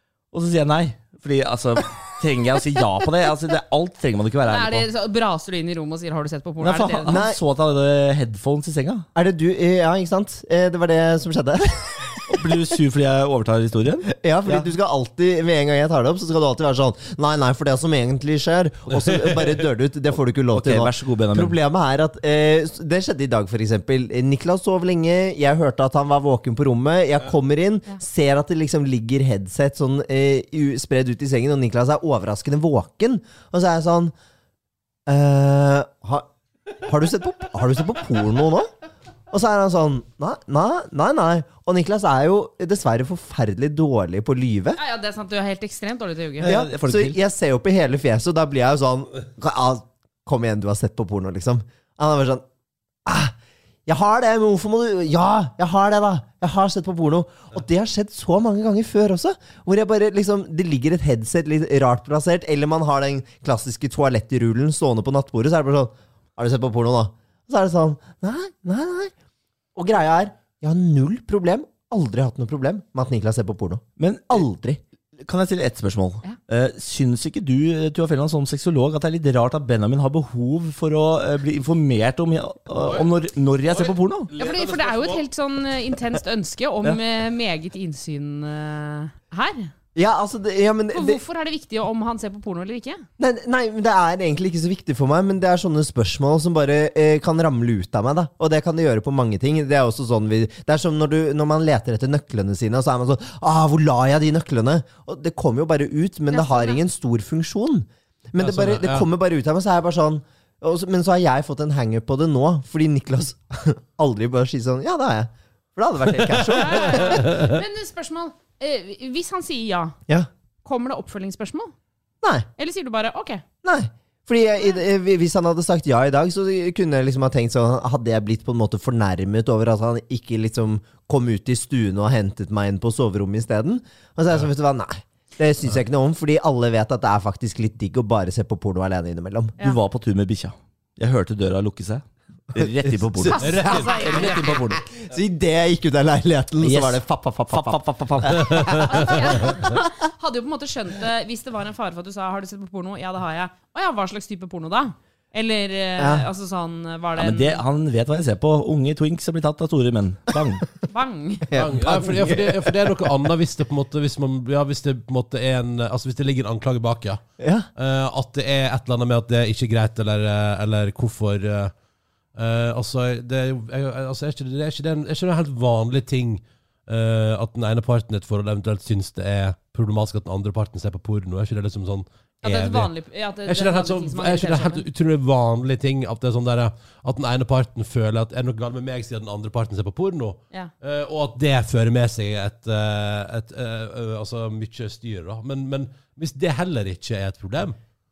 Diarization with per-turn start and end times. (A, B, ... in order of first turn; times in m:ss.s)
0:00.3-0:04.9 A
0:04.4-0:07.2 B
0:06.6-0:09.0 A
0:07.1-0:07.4 C
0:09.1-0:12.3 C
0:12.3-0:14.7 A
0:14.1-0:34.1 C
0:18.9-0:19.6 D
0:20.5-0:21.6 A
0:35.0-0:36.3 C
0:36.8-0:38.7 C
0:39.3-0:44.8 C
0:44.8-0:46.6 B
0:46.4-0:47.2 A
0:46.4-0:52.4 C
0:53.0-0:53.3 C
0:53.8-1:09.1 C
1:09.7-1:14.8 C
1:14.0-1:14.5 A
1:15.2-1:24.3 A
1:22.8-1:23.1 D
1:23.7-1:25.2 D
1:24.4-1:29.7 B
1:29.9-1:31.2 C
1:30.9-1:33.0 B
1:33.2-1:57.5 C
1:46.3-1:46.8 B
1:48.4-1:49.1 D
1:56.5-2:00.0 B
1:57.0-1:57.5 D
2:00.6-2:01.7 B
2:02.2-2:02.5 C
2:02.6-2:03.4 B
2:03.6-2:19.5 C
2:19.6-2:24.8 A
2:23.3-2:24.1 D
2:23.3-2:24.6 B
2:23.9-2:29.6 C
2:26.6-2:28.7 A
2:28.8-2:37.6 B
2:36.0-2:36.3 C
2:37.2-2:40.6 A
2:40.9-2:41.4 B
2:41.5-2:42.8 C
2:41.5-2:47.2 D
2:47.4-2:47.6 C
2:47.8-2:51.7 D
2:52.4-3:02.9 D
3:02.4-3:04.8 B
3:03.4-3:17.8 D